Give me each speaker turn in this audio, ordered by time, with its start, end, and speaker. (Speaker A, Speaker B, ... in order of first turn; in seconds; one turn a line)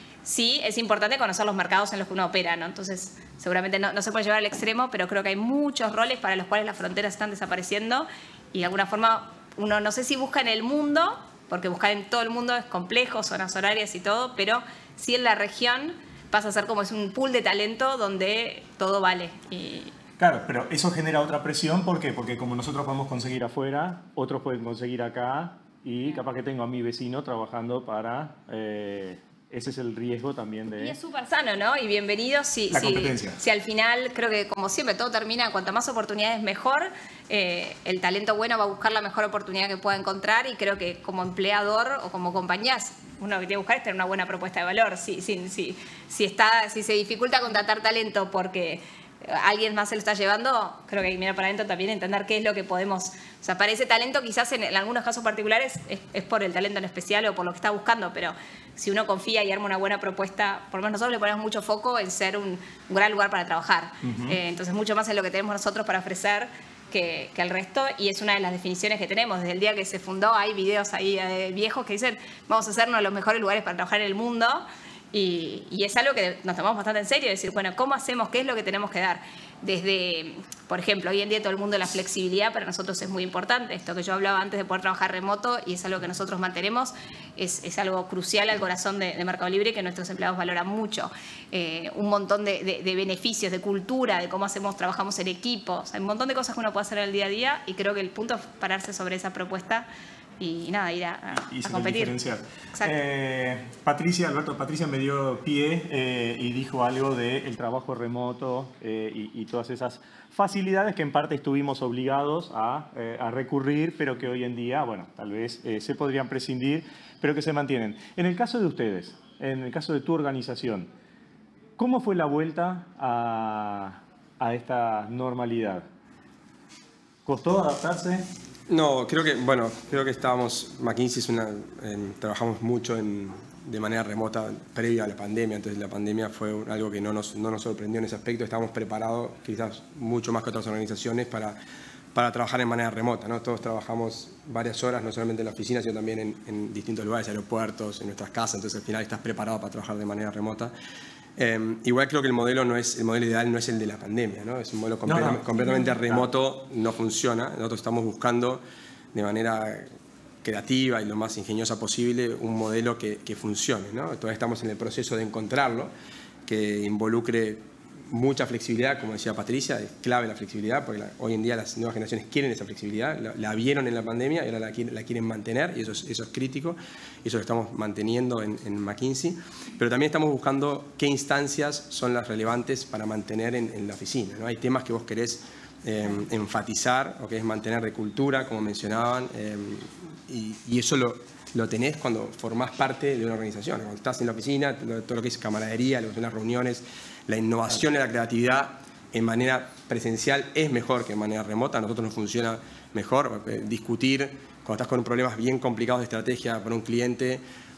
Speaker A: 0.2-19.9
Speaker B: 20.2-31.0
Speaker A: 30.8-99.9
Speaker B: 32.7-33.4
Speaker B: 64.0-64.4
Speaker A: 100.4-102.2
Speaker B: 101.5-120.9
Speaker B: 121.8-125.9
Speaker B: 127.2-128.3
Speaker C: 128.7-141.6
Speaker C: 142.1-150.7
Speaker C: 151.4-159.9
Speaker B: 155.1-156.2
Speaker C: 160.4-165.9
Speaker C: 166.5-207.4